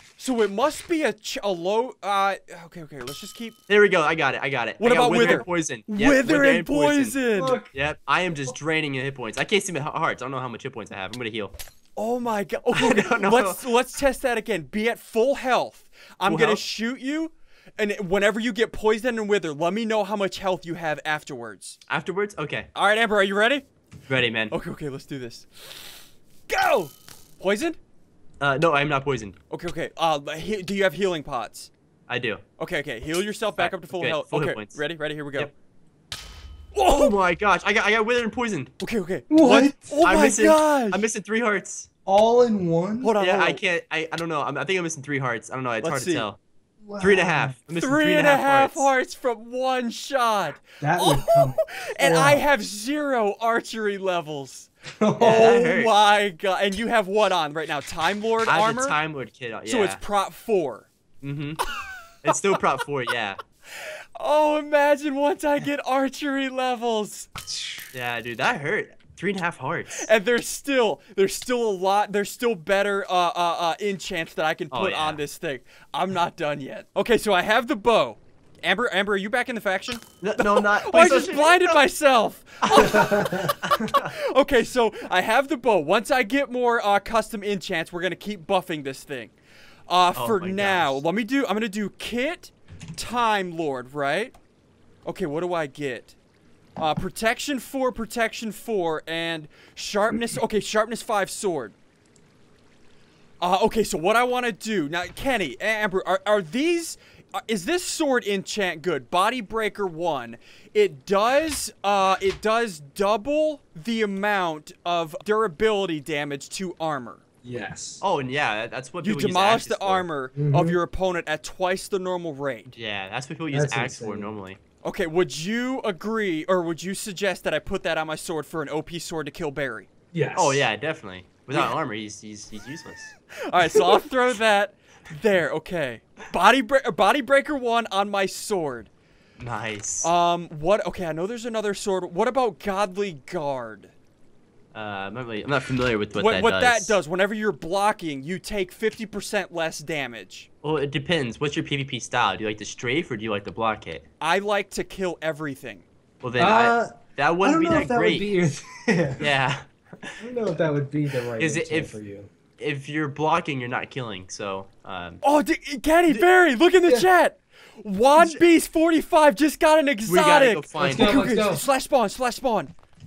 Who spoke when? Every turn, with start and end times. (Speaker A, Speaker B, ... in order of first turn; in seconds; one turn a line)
Speaker A: 0.2-3.6
Speaker B: 3.7-7.2
Speaker A: 4.8-7.6
Speaker C: 7.3-7.7
Speaker B: 7.7-11.5
Speaker A: 12.0-21.8
Speaker B: 12.7-13.6
Speaker B: 16.2-16.6
Speaker B: 21.9-22.7
Speaker A: 22.8-23.7
Speaker B: 24.1-24.5
Speaker A: 24.5-25.9
Speaker A: 26.5-27.8
Speaker B: 28.4-29.4
Speaker A: 29.5-31.7
Speaker B: 32.1-32.4
Speaker A: 32.6-35.5
Speaker B: 33.6-34.8
Speaker A: 36.8-37.1
Speaker B: 36.9-38.7
Speaker A: 38.8-41.1
Speaker C: 39.3-40.0
Speaker B: 40.0-41.9
Speaker C: 42.1-43.1
Speaker A: 43.0-43.6
Speaker B: 43.2-46.4
Speaker A: 45.8-46.3
Speaker C: 46.8-47.6
Speaker B: 47.0-48.9
Speaker A: 47.8-59.0
Speaker C: 50.8-52.4
Speaker C: 55.0-55.6
Speaker B: 55.2-55.9
Speaker B: 58.4-60.0
Speaker A: 59.7-60.9
Speaker B: 61.2-61.6
Speaker A: 61.7-62.6
Speaker B: 62.2-63.4
Speaker A: 63.8-67.3
Speaker B: 67.9-70.1
Speaker A: 70.0-89.3
Speaker B: 74.7-75.2
Speaker B: 80.2-81.8
Speaker B: 82.6-84.1
Speaker C: 83.2-83.5
Speaker A: 89.9-94.3
Speaker B: 90.1-91.0
Speaker A: 95.0-96.2
Speaker A: 96.8-101.8
Speaker A: 103.4-117.2
Speaker C: 117.4-118.0
Speaker B: 118.0-120.1
Speaker A: 119.0-122.7
Speaker C: 120.3-120.8
Speaker B: 122.7-124.6
Speaker C: 123.5-124.3
Speaker A: 124.8-129.9
Speaker C: 130.1-130.7
Speaker B: 130.3-133.1
Speaker A: 133.5-138.9
Speaker B: 139.4-140.1
Speaker A: 140.0-143.9
Speaker B: 144.7-147.0
Speaker A: 146.1-150.5
Speaker B: 150.6-154.1
Speaker A: 154.2-155.9
Speaker B: 156.2-158.3
Speaker C: 156.4-159.2
Speaker B: 159.2-160.3
Speaker C: 160.2-162.3
Speaker B: 161.3-162.0
Speaker B: 162.6-165.2
Speaker A: 165.2-172.7
Speaker B: 168.2-168.4
Speaker B: 170.1-171.2
Speaker C: 170.8-171.7